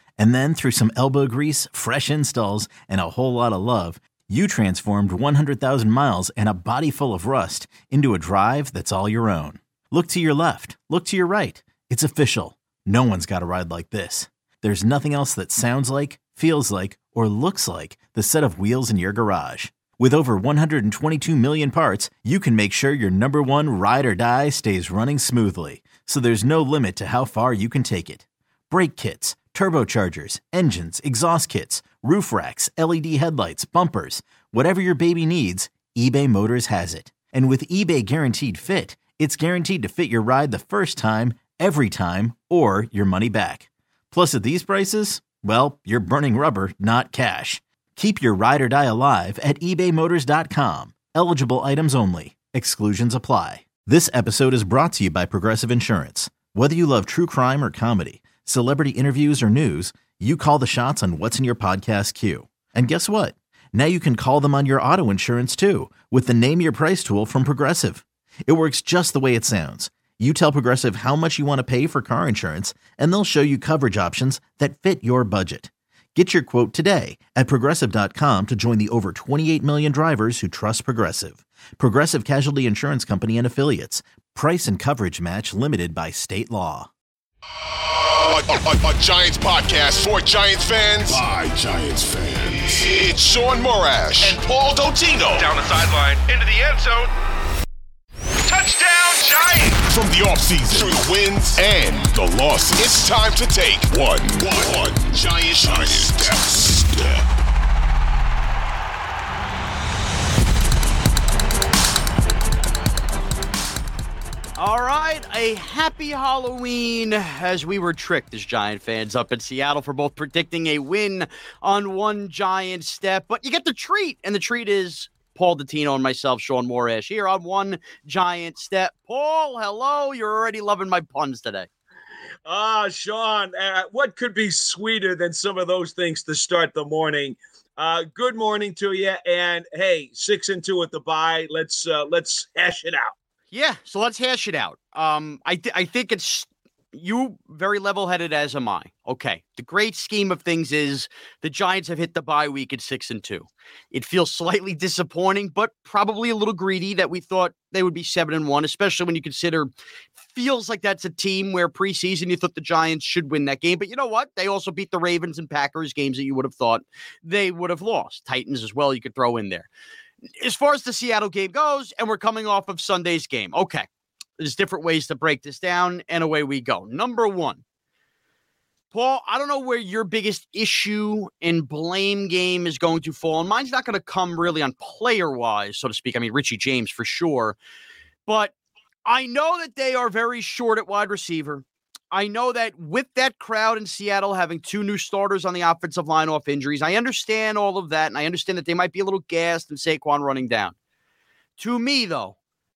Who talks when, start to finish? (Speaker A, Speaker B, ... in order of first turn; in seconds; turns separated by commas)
Speaker A: 0.2-86.9, Speaker B: 87.9-94.5, Speaker C: 94.2-97.1, Speaker C: 98.4-99.8, Speaker B: 99.8-107.2, Speaker C: 105.8-106.1, Speaker D: 114.6-131.7, Speaker E: 132.5-143.1, Speaker D: 143.5-159.7, Speaker D: 160.3-169.7, Speaker D: 170.4-173.9, Speaker D: 174.4-177.6, Speaker D: 178.9-187.6, Speaker D: 188.3-188.5, Speaker D: 189.1-200.7, Speaker D: 201.6-202.3